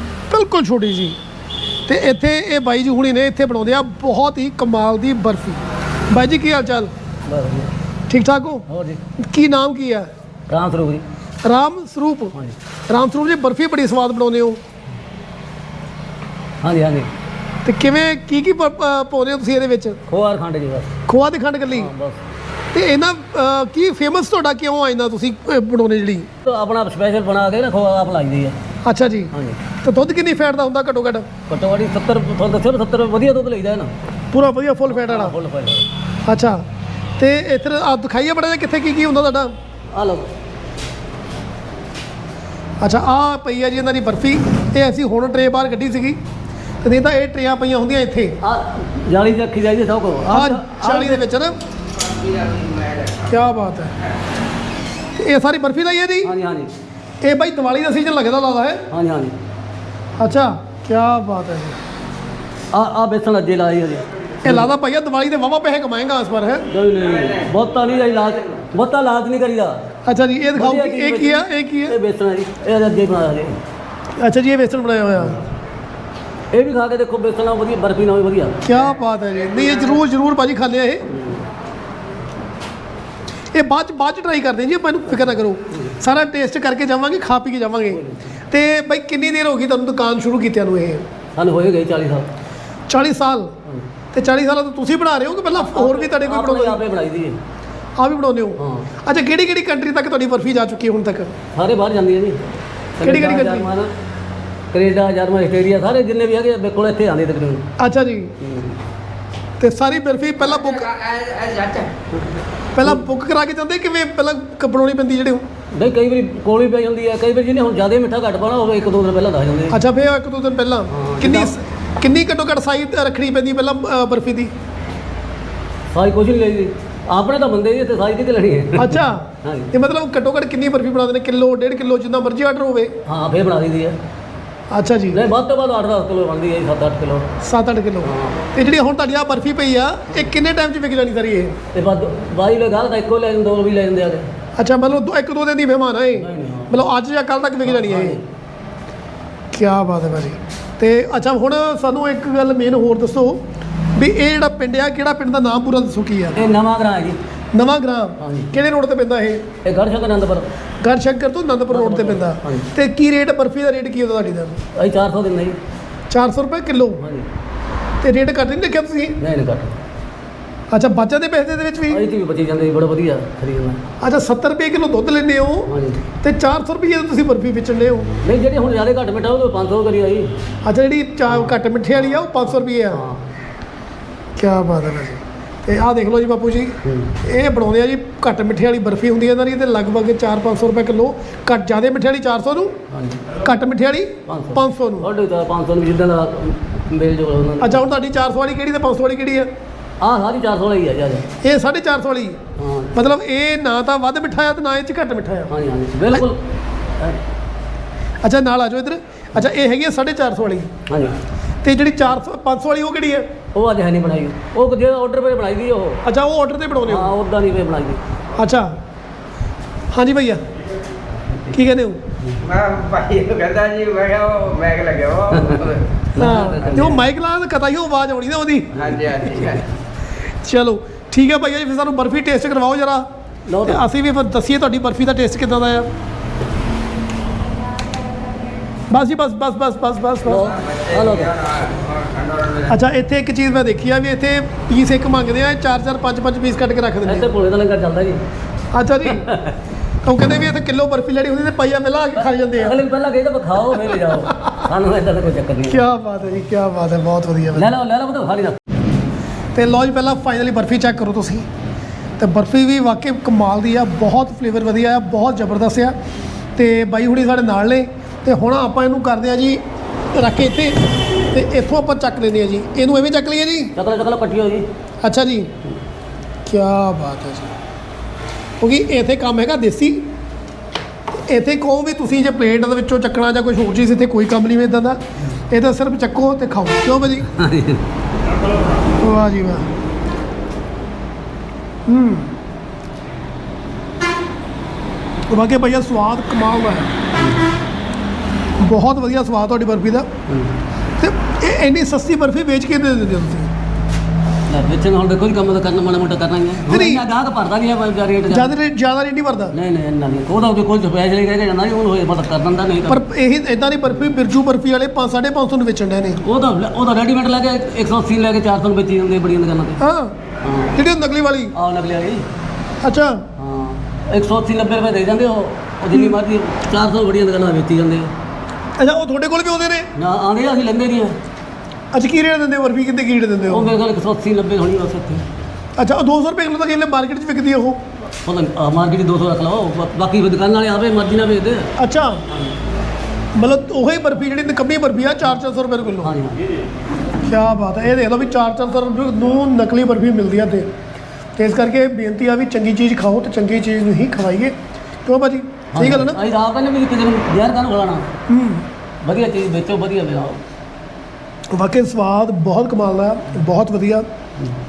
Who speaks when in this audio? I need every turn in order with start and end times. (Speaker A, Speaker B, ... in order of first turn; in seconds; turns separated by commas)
Speaker A: 0.3-1.2, Speaker A: 1.9-5.6, Speaker A: 6.1-6.9, Speaker B: 7.3-7.7, Speaker A: 8.1-8.7, Speaker B: 8.7-9.0, Speaker A: 9.2-10.1, Speaker B: 10.5-11.0, Speaker A: 11.4-12.4, Speaker A: 12.9-14.6, Speaker B: 16.6-17.1, Speaker A: 17.6-20.0, Speaker B: 20.1-20.9, Speaker A: 21.1-21.9, Speaker B: 21.7-22.2, Speaker A: 22.7-26.3, Speaker B: 26.4-28.6, Speaker A: 28.9-29.3, Speaker B: 29.3-29.6, Speaker A: 29.8-31.3, Speaker B: 31.5-33.9, Speaker A: 34.3-35.4, Speaker B: 34.9-35.9, Speaker A: 36.3-36.6, Speaker A: 37.2-39.5, Speaker B: 39.9-40.3, Speaker A: 42.8-46.2, Speaker A: 46.8-48.4, Speaker B: 48.4-51.2, Speaker A: 50.3-51.5, Speaker C: 52.0-53.3, Speaker A: 53.3-53.9, Speaker A: 55.2-56.3, Speaker B: 56.2-56.7, Speaker A: 57.2-58.8, Speaker B: 58.9-59.4, Speaker A: 60.2-61.8, Speaker B: 62.7-64.7, Speaker A: 64.4-66.7, Speaker B: 66.7-69.8, Speaker A: 70.1-72.0, Speaker B: 70.5-73.6, Speaker A: 74.2-75.4, Speaker B: 76.5-78.7, Speaker A: 78.7-81.0, Speaker B: 81.1-81.4, Speaker A: 83.5-91.0, Speaker B: 85.7-86.0, Speaker B: 87.9-88.3, Speaker B: 91.4-92.3, Speaker A: 92.9-93.5, Speaker A: 94.1-96.8, Speaker B: 95.5-97.4, Speaker A: 98.0-101.3, Speaker B: 98.6-98.9, Speaker B: 101.5-103.9, Speaker A: 103.0-103.7, Speaker B: 104.7-107.7, Speaker A: 107.8-108.3, Speaker B: 108.4-108.8, Speaker A: 109.6-111.0, Speaker C: 110.6-111.9, Speaker A: 112.8-115.4, Speaker B: 115.7-119.8, Speaker A: 119.7-124.5, Speaker B: 120.9-121.5, Speaker B: 125.9-129.7, Speaker A: 128.8-132.9, Speaker B: 133.1-134.0, Speaker A: 134.7-135.2, Speaker B: 135.1-137.3, Speaker A: 137.4-141.5, Speaker B: 138.0-138.4, Speaker B: 141.7-144.3, Speaker A: 144.6-148.2, Speaker B: 146.2-146.8, Speaker B: 147.6-148.2, Speaker A: 149.5-153.4, Speaker A: 154.0-156.5, Speaker B: 156.3-157.2, Speaker A: 157.5-159.4, Speaker B: 158.2-158.5, Speaker B: 159.6-160.5, Speaker A: 160.8-164.6, Speaker B: 161.7-162.7, Speaker B: 164.8-165.6, Speaker A: 166.1-167.0, Speaker B: 167.0-167.3, Speaker A: 168.0-169.2, Speaker B: 169.2-169.8, Speaker A: 170.7-172.0, Speaker B: 171.9-173.8, Speaker A: 174.0-175.7, Speaker B: 175.7-176.1, Speaker A: 176.2-178.1, Speaker B: 178.2-180.3, Speaker A: 180.6-183.0, Speaker B: 181.3-183.2, Speaker A: 184.4-192.7, Speaker B: 186.8-187.2, Speaker B: 192.9-193.3, Speaker A: 193.4-195.1, Speaker B: 194.3-197.8, Speaker A: 197.6-199.5, Speaker B: 200.0-201.3, Speaker A: 201.4-202.4, Speaker B: 202.6-203.0, Speaker A: 202.9-205.5, Speaker B: 205.5-206.4, Speaker A: 208.2-210.7, Speaker B: 210.9-211.2, Speaker A: 211.6-213.2, Speaker B: 213.5-216.0, Speaker A: 216.1-217.1, Speaker B: 216.8-218.0, Speaker A: 218.4-218.7, Speaker A: 219.9-220.4, Speaker A: 221.5-222.0, Speaker C: 222.4-225.9, Speaker B: 226.1-227.0, Speaker A: 226.2-228.8, Speaker C: 228.8-229.7, Speaker B: 228.8-229.6, Speaker A: 230.4-233.1, Speaker B: 233.5-233.8, Speaker A: 233.7-235.9, Speaker A: 238.9-240.6, Speaker B: 240.2-241.4, Speaker C: 240.6-242.7, Speaker A: 242.7-247.3, Speaker B: 247.0-248.2, Speaker A: 248.7-249.3, Speaker B: 249.1-249.6, Speaker A: 250.0-252.8, Speaker B: 252.2-255.9, Speaker A: 254.0-254.6, Speaker A: 255.7-257.7, Speaker B: 257.5-258.6, Speaker A: 259.5-261.5, Speaker A: 262.2-265.9, Speaker A: 266.6-269.6, Speaker A: 270.1-270.8, Speaker A: 271.3-273.7, Speaker B: 273.8-274.7, Speaker A: 275.0-275.5, Speaker A: 276.5-277.5, Speaker A: 278.6-280.0, Speaker A: 281.2-285.0, Speaker A: 285.5-287.3, Speaker B: 287.2-287.8, Speaker A: 289.0-289.7, Speaker A: 291.9-292.4, Speaker A: 295.3-296.9, Speaker B: 297.1-297.5, Speaker A: 298.6-300.1, Speaker B: 300.3-300.6, Speaker A: 301.0-303.5, Speaker B: 304.5-308.5, Speaker A: 306.7-307.0, Speaker A: 308.3-309.5, Speaker B: 309.5-313.0, Speaker A: 312.9-316.2, Speaker B: 316.2-319.8, Speaker A: 319.8-320.1, Speaker B: 320.4-320.8, Speaker A: 320.8-321.5, Speaker B: 321.5-322.2, Speaker A: 322.8-323.2, Speaker B: 323.4-328.1, Speaker A: 325.9-326.2, Speaker A: 328.8-329.9, Speaker B: 329.9-331.2, Speaker A: 331.9-333.7, Speaker B: 333.5-335.2, Speaker A: 335.8-337.8, Speaker B: 338.2-341.7, Speaker A: 341.8-342.2, Speaker B: 342.3-342.6, Speaker A: 343.4-346.1, Speaker B: 346.0-346.4, Speaker A: 347.2-350.7, Speaker A: 351.4-354.6, Speaker A: 355.1-356.2, Speaker B: 355.7-358.1, Speaker A: 358.3-358.6, Speaker B: 359.0-360.4, Speaker A: 361.5-364.1